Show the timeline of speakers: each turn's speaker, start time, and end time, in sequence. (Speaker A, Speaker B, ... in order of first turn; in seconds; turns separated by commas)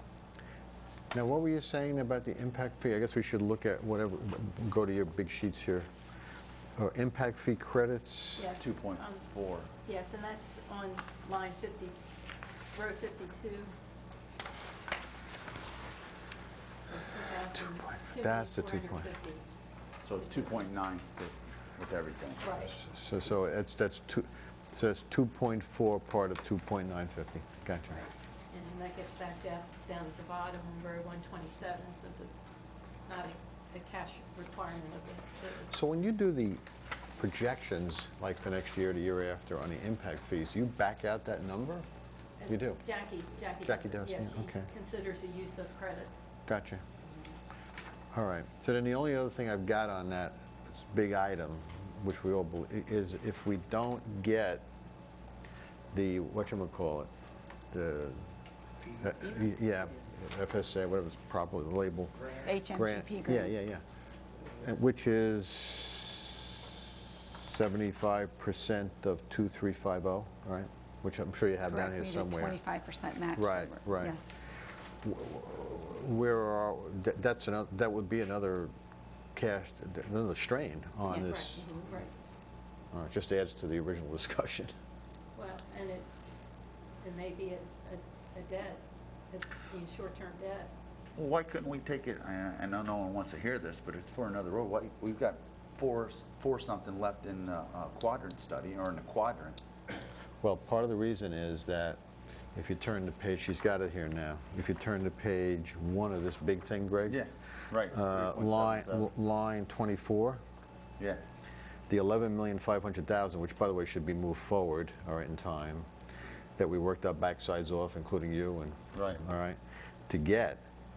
Speaker A: 1.1-5.9, Speaker A: 6.8-8.5, Speaker B: 8.3-9.2, Speaker C: 8.6-9.7, Speaker B: 9.8-12.0, Speaker B: 12.7-13.7, Speaker B: 16.9-19.4, Speaker A: 17.5-19.1, Speaker C: 20.0-22.5, Speaker B: 22.4-22.8, Speaker A: 22.6-28.0, Speaker B: 27.9-32.4, Speaker B: 33.0-35.7, Speaker A: 35.7-36.6, Speaker A: 37.2-41.9, Speaker B: 42.4-46.2, Speaker A: 42.5-42.8, Speaker A: 43.6-44.7, Speaker A: 46.5-46.8, Speaker A: 48.1-54.7, Speaker A: 55.9-57.1, Speaker A: 57.7-58.2, Speaker A: 58.9-63.8, Speaker D: 62.4-63.5, Speaker A: 64.5-66.6, Speaker A: 67.2-72.5, Speaker D: 71.6-74.3, Speaker A: 73.3-74.2, Speaker A: 75.0-78.7, Speaker A: 79.3-81.7, Speaker D: 81.1-81.3, Speaker B: 81.1-82.1, Speaker A: 82.9-84.7, Speaker B: 85.3-86.1, Speaker B: 87.0-90.7, Speaker C: 91.2-99.6, Speaker A: 100.4-102.0, Speaker A: 102.5-107.2, Speaker C: 107.1-109.1, Speaker A: 107.9-110.4, Speaker A: 111.9-115.9, Speaker A: 116.6-120.6, Speaker C: 118.9-119.2